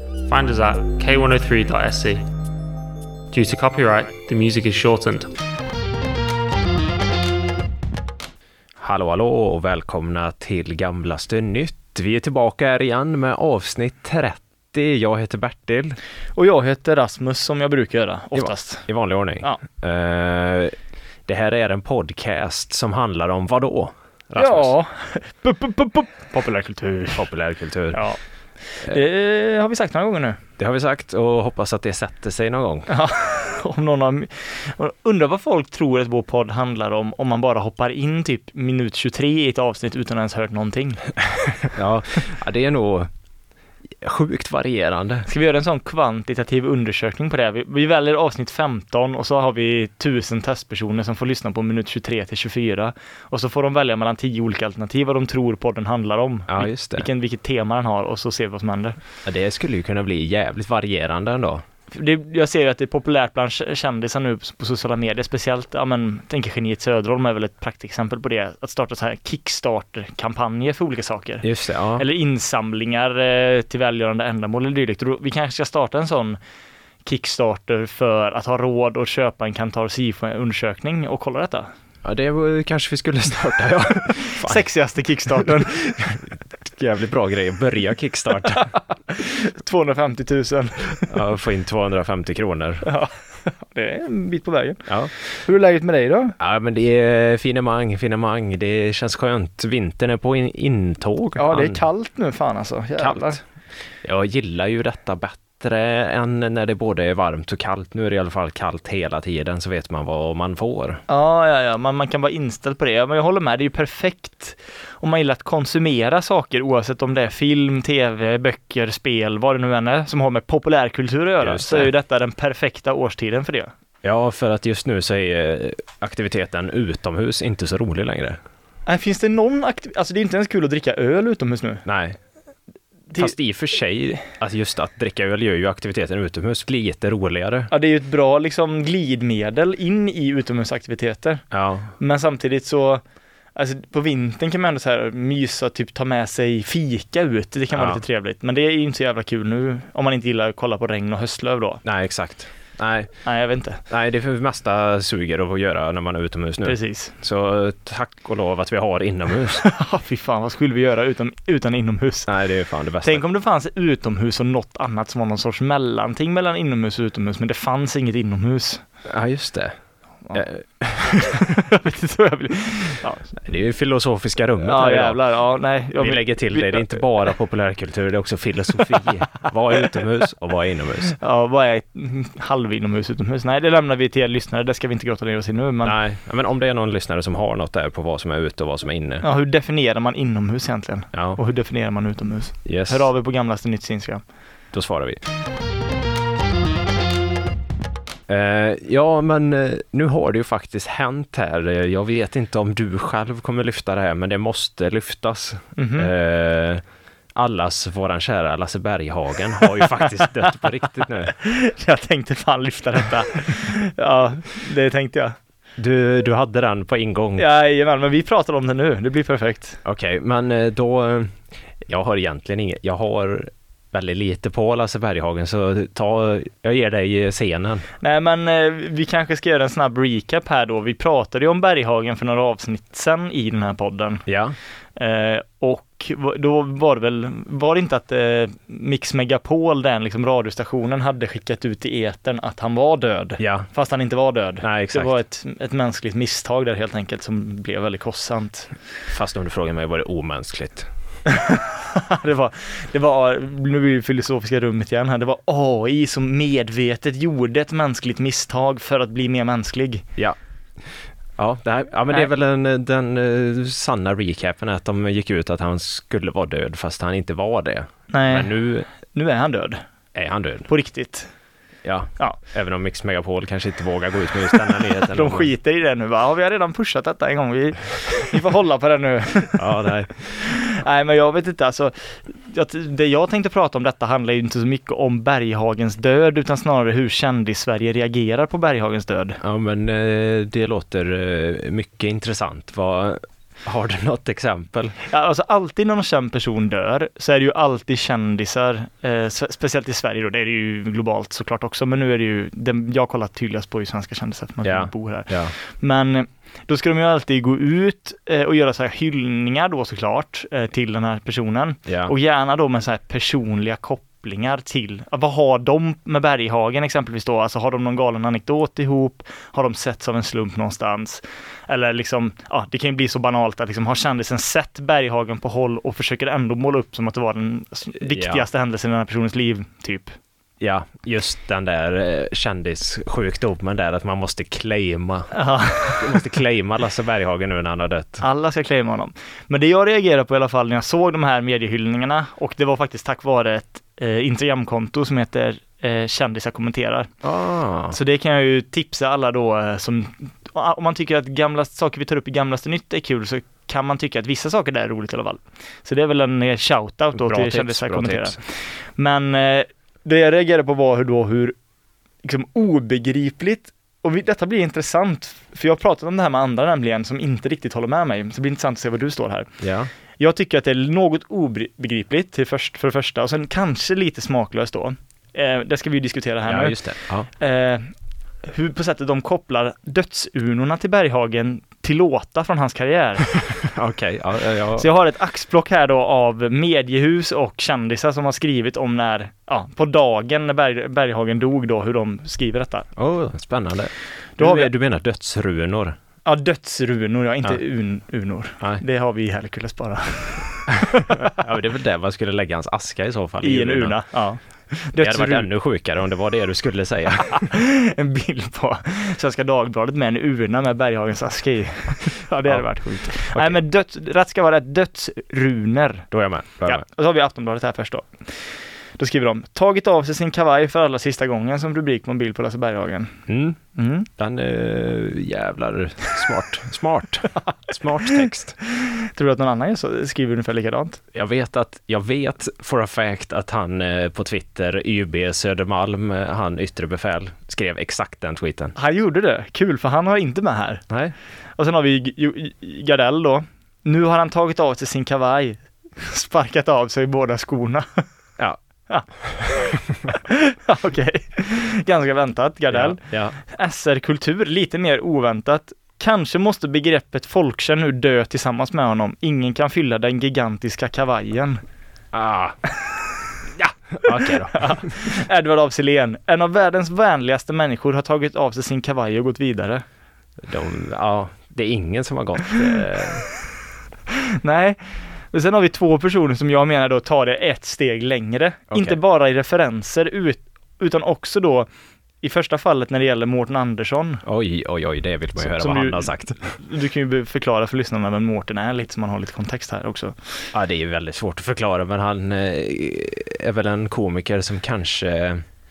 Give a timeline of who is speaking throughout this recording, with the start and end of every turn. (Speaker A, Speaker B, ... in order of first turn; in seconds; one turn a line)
Speaker A: 0.2-2.2
Speaker A: 3.3-5.3
Speaker B: 8.8-16.0
Speaker C: 16.3-18.9
Speaker B: 18.3-20.8
Speaker B: 21.3-24.7
Speaker C: 24.4-27.2
Speaker B: 27.1-28.0
Speaker C: 27.9-30.4
Speaker B: 30.6-32.9
Speaker C: 32.9-41.1
Speaker B: 41.6-43.1
Speaker B: 44.0-45.3
Speaker C: 45.2-59.0
Speaker B: 56.5-57.1
Speaker B: 59.2-61.6
Speaker C: 61.9-76.4
Speaker B: 71.4-72.0
Speaker C: 77.0-81.7
Speaker B: 82.0-84.7
Speaker C: 84.2-85.9
Speaker B: 85.4-88.7
Speaker C: 88.6-91.1
Speaker B: 91.1-92.8
Speaker C: 92.8-96.3
Speaker B: 94.9-95.1
Speaker B: 96.4-101.8
Speaker C: 101.3-103.4
Speaker B: 103.0-103.4
Speaker B: 104.0-111.0
Speaker C: 111.1-123.7
Speaker B: 121.4-121.9
Speaker B: 124.0-128.4
Speaker C: 128.8-131.8
Speaker B: 131.8-132.2
Speaker B: 133.1-137.7
Speaker C: 137.7-141.4
Speaker B: 141.5-141.9
Speaker C: 142.0-143.0
Speaker C: 143.5-151.8
Speaker B: 147.7-148.0
Speaker B: 151.8-153.2
Speaker C: 153.2-153.8
Speaker B: 153.9-159.7
Speaker C: 156.6-157.1
Speaker C: 159.6-162.3
Speaker B: 162.2-163.2
Speaker C: 163.0-168.8
Speaker B: 169.1-169.8
Speaker B: 170.3-171.4
Speaker C: 171.0-173.3
Speaker B: 173.4-175.2
Speaker C: 174.6-177.0
Speaker B: 175.9-181.2
Speaker C: 181.2-186.0
Speaker B: 185.8-189.2
Speaker C: 189.2-194.2
Speaker B: 191.1-191.4
Speaker B: 192.6-193.1
Speaker B: 194.7-195.2
Speaker B: 198.3-206.8
Speaker C: 205.8-206.1
Speaker B: 207.3-211.3
Speaker C: 210.0-210.3
Speaker C: 211.0-215.4
Speaker B: 215.8-217.4
Speaker C: 217.3-219.8
Speaker B: 219.8-227.8
Speaker C: 228.0-234.2
Speaker B: 234.3-234.6
Speaker C: 235.0-248.7
Speaker B: 243.4-243.7
Speaker B: 244.6-245.1
Speaker B: 249.1-250.9
Speaker C: 251.2-260.0
Speaker B: 260.1-268.9
Speaker C: 268.1-269.8
Speaker B: 270.1-270.7
Speaker C: 270.7-271.3
Speaker B: 271.8-275.5
Speaker C: 275.1-279.8
Speaker B: 279.6-280.5
Speaker C: 280.4-289.4
Speaker B: 289.4-295.0
Speaker C: 295.0-330.2
Speaker B: 304.6-305.5
Speaker B: 311.9-312.1
Speaker B: 328.0-328.4
Speaker B: 330.6-338.2
Speaker C: 335.3-336.2
Speaker C: 338.2-347.1
Speaker B: 347.2-347.9
Speaker C: 347.9-361.6
Speaker B: 357.1-358.4
Speaker C: 362.2-369.5
Speaker B: 369.6-369.9
Speaker C: 370.2-377.9
Speaker B: 376.4-377.3
Speaker C: 378.4-383.4
Speaker B: 383.7-384.9
Speaker C: 384.8-392.9
Speaker B: 392.9-395.9
Speaker C: 394.4-394.7
Speaker C: 396.2-401.3
Speaker B: 401.0-404.0
Speaker C: 403.4-405.5
Speaker B: 405.0-407.4
Speaker C: 407.3-416.1
Speaker B: 412.5-413.6
Speaker B: 416.1-416.8
Speaker C: 416.6-418.4
Speaker C: 419.0-423.2
Speaker B: 423.3-423.6
Speaker C: 423.7-424.1
Speaker B: 424.2-428.6
Speaker C: 428.7-431.0
Speaker B: 431.1-438.7
Speaker C: 438.8-440.8
Speaker C: 441.6-448.0
Speaker C: 448.9-461.6
Speaker B: 452.7-453.4
Speaker B: 462.1-462.6
Speaker B: 463.6-464.9
Speaker C: 464.0-469.8
Speaker B: 470.4-473.2
Speaker C: 474.4-481.7
Speaker B: 478.7-479.0
Speaker C: 482.2-484.2
Speaker B: 484.2-486.6
Speaker C: 485.4-490.1
Speaker B: 490.5-495.4